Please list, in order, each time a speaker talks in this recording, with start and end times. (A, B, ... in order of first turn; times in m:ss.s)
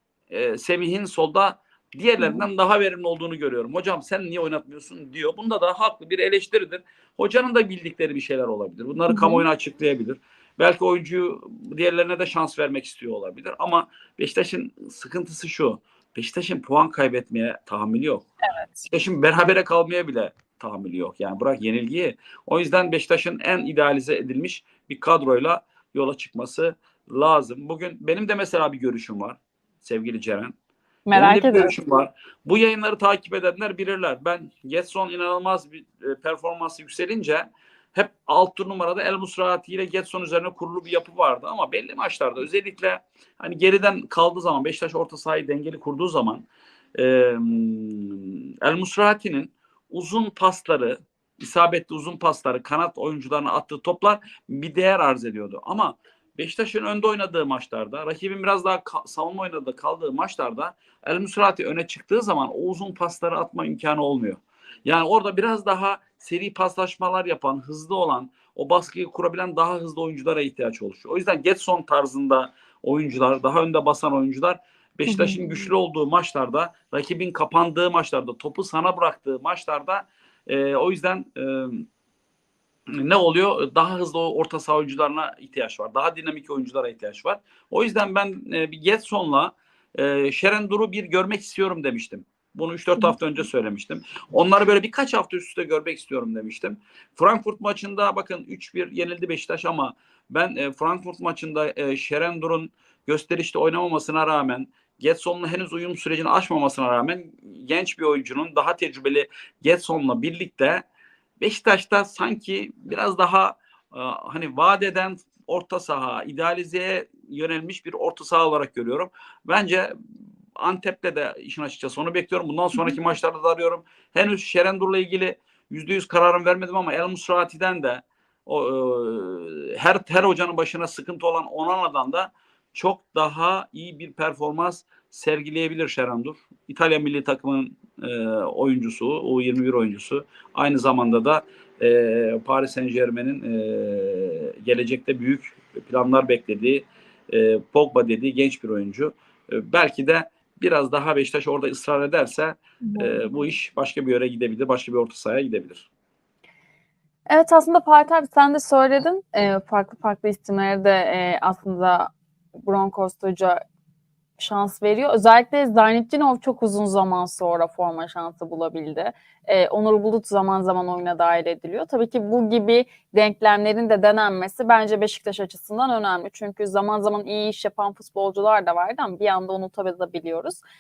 0:00.3-0:18.3 A
0:02.2-0:02.5 B
0:09.1-0:09.4 B
0:18.4-0:18.8 B
0:18.9-0:30.6 A
0:31.1-0:31.8 B
0:31.1-0:46.4 A
0:47.0-1:21.9 A
1:15.1-1:15.4 B
1:22.9-1:50.8 A
1:51.4-1:59.9 A
2:00.6-2:35.9 A
2:32.8-2:33.5 B
2:37.3-2:42.1 B
2:42.6-2:43.6 B
2:44.4-3:00.6 B